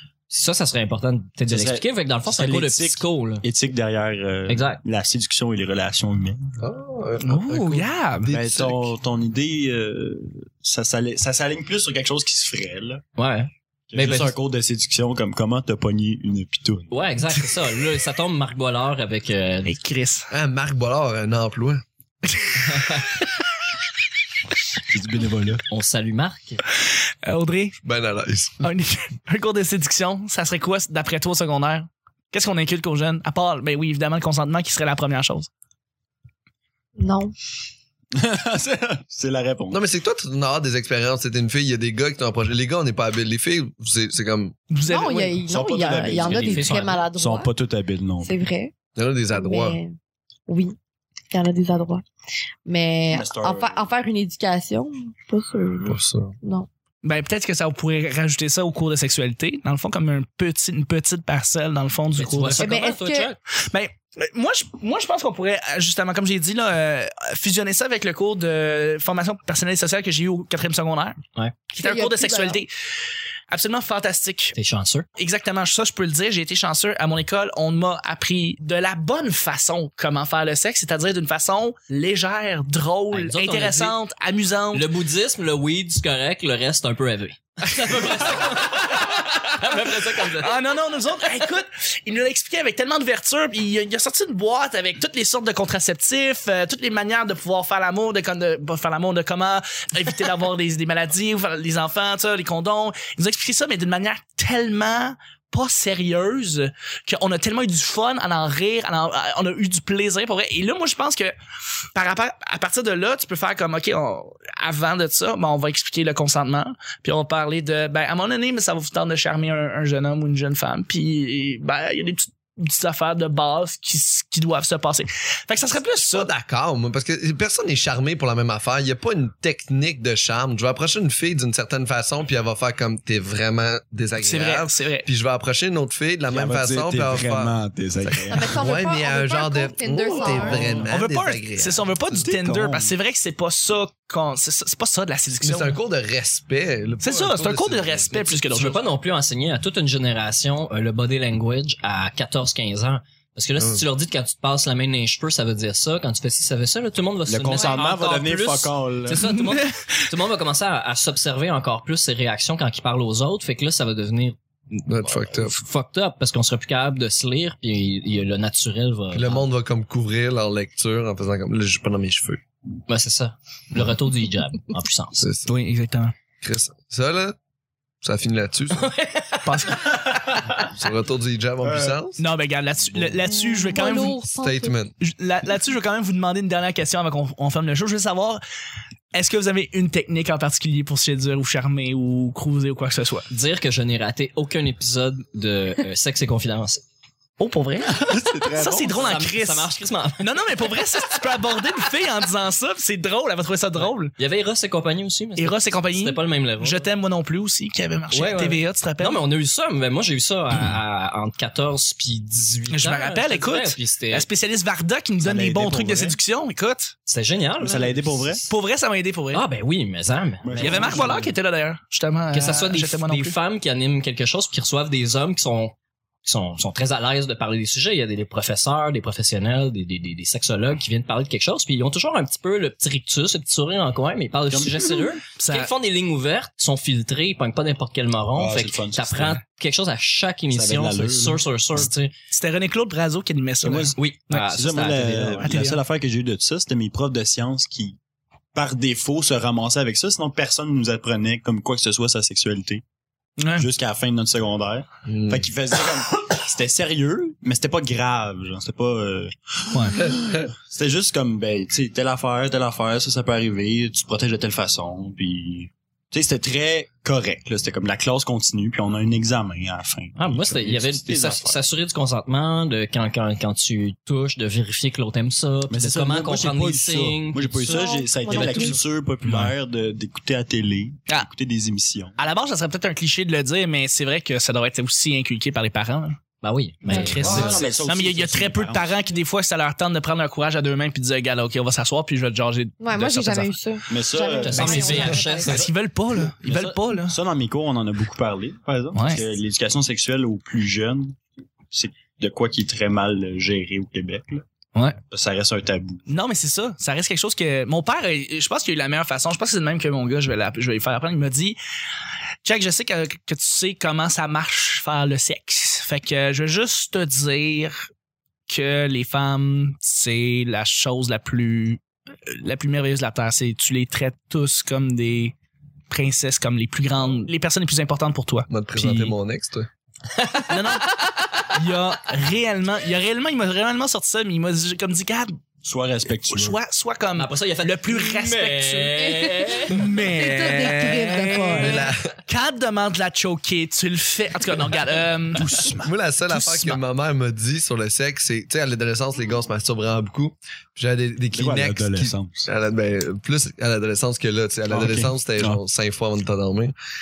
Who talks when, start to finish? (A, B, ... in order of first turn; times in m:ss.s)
0:00.3-0:03.4 A
0:01.4-0:06.5 B
0:04.5-0:04.8 A
0:06.6-0:08.9 C
0:07.2-0:08.3 D
0:08.3-0:13.0 B
0:13.2-0:14.3 A
0:13.9-0:16.9 B
0:16.9-0:19.7 A
0:19.6-0:20.3 D
0:20.3-0:21.8 C
0:22.4-0:22.8 D
0:22.7-0:23.0 A
0:24.9-0:25.6 B
0:25.7-0:26.6 A
0:27.2-0:27.8 D
0:27.8-0:28.7 C
0:28.6-0:35.5 D
0:37.0-0:37.3 E
0:38.1-0:39.8 B
0:39.7-0:44.5 C
0:44.7-0:45.4 D
0:44.9-0:47.5 E
0:45.4-0:48.4 B
0:46.1-0:47.0 A
0:48.2-0:48.7 E
0:49.0-0:49.8 C
0:49.3-0:50.0 E
0:50.5-0:50.8 E
0:51.3-0:52.0 E
0:52.6-0:56.7 E
0:53.1-0:53.8 B
0:55.8-0:56.3 C
0:57.0-1:02.9 D
1:02.2-1:03.4 A
1:02.6-1:03.3 E
1:03.6-1:11.2 D
1:11.7-1:12.6 E
1:11.8-1:12.7 D
1:13.5-1:14.5 D
1:14.5-1:15.1 A
1:15.2-1:24.9 D
1:23.1-1:24.0 A
1:24.7-1:30.6 A
1:27.8-1:51.3 D
1:51.9-2:06.3 D
2:06.0-2:22.2 C
2:14.2-2:15.1 D
2:16.3-2:18.6 B
2:18.3-2:20.8 E
2:20.2-2:20.9 B
2:20.9-2:25.8 D
2:22.2-2:22.9 B
2:25.4-2:28.4 C
2:27.0-2:28.8 D
2:28.5-2:49.5 A
2:33.6-2:33.8 C
2:37.3-2:39.3 B
2:39.2-2:39.9 D
2:44.8-2:45.6 C
2:49.1-2:52.4 C
2:52.9-2:55.2 A
2:55.2-2:55.5 C
2:55.5-2:56.1 D
2:56.4-2:57.4 C
2:58.0-2:58.9 C
2:58.7-3:00.3 A
2:59.4-2:59.9 D
3:00.7-3:02.2 C
3:01.6-3:02.0 B
3:02.2-3:04.3 D
3:03.2-3:04.7 E
3:04.4-3:04.9 C
3:05.0-3:08.4 D
3:09.1-3:13.3 D
3:13.3-3:16.8 A
3:17.4-3:24.1 D
3:17.8-3:19.2 B
3:18.9-3:20.3 A
3:23.8-3:26.8 A
3:25.4-3:29.2 D
3:28.1-3:34.3 A
3:32.7-3:36.9 D
3:35.2-3:36.2 B
3:37.1-3:38.5 A
3:37.6-3:38.4 B
3:38.5-3:39.4 D
3:39.3-3:41.3 A
3:40.4-3:41.3 B
3:40.6-3:43.4 D
3:42.3-4:02.1 A
3:54.5-3:55.1 B
3:55.4-3:55.7 D
3:58.4-3:59.4 B
4:00.5-4:01.9 B
4:02.3-4:04.4 D
4:03.6-4:08.0 B
4:04.0-4:05.6 A
4:05.4-4:05.8 D
4:08.5-4:12.8 B
4:13.4-4:13.7 D
4:13.5-4:31.6 B
4:15.1-4:15.4 C
4:19.7-4:20.0 D
4:20.1-4:20.4 C
4:30.2-4:39.4 A
4:35.7-4:42.2 B
4:37.6-4:38.8 E
4:42.2-4:46.2 D
4:46.4-4:47.7 A
4:46.8-4:53.6 D
4:46.9-4:47.3 E
4:47.2-4:49.0 B
4:52.8-4:55.6 E
4:53.9-4:55.2 B
4:54.4-4:55.7 A
4:55.4-4:57.2 D
4:56.3-5:04.4 B
4:58.9-4:59.2 D
5:05.0-5:06.0 B
5:06.1-5:11.6 D
5:12.4-5:17.9 D
5:18.5-5:25.3 D
5:25.9-5:29.1 D
5:28.5-5:29.7 C
5:30.2-5:30.8 A
5:30.5-5:31.0 D
5:31.5-5:35.4 D
5:35.6-5:36.6 B
5:36.3-5:45.6 D
5:37.2-5:40.1 A
5:40.0-5:41.9 E
5:41.6-5:42.2 C
5:45.3-5:45.9 B
5:45.8-5:56.7 C
5:46.3-5:46.8 D
5:51.3-5:52.5 B
5:54.7-5:55.6 B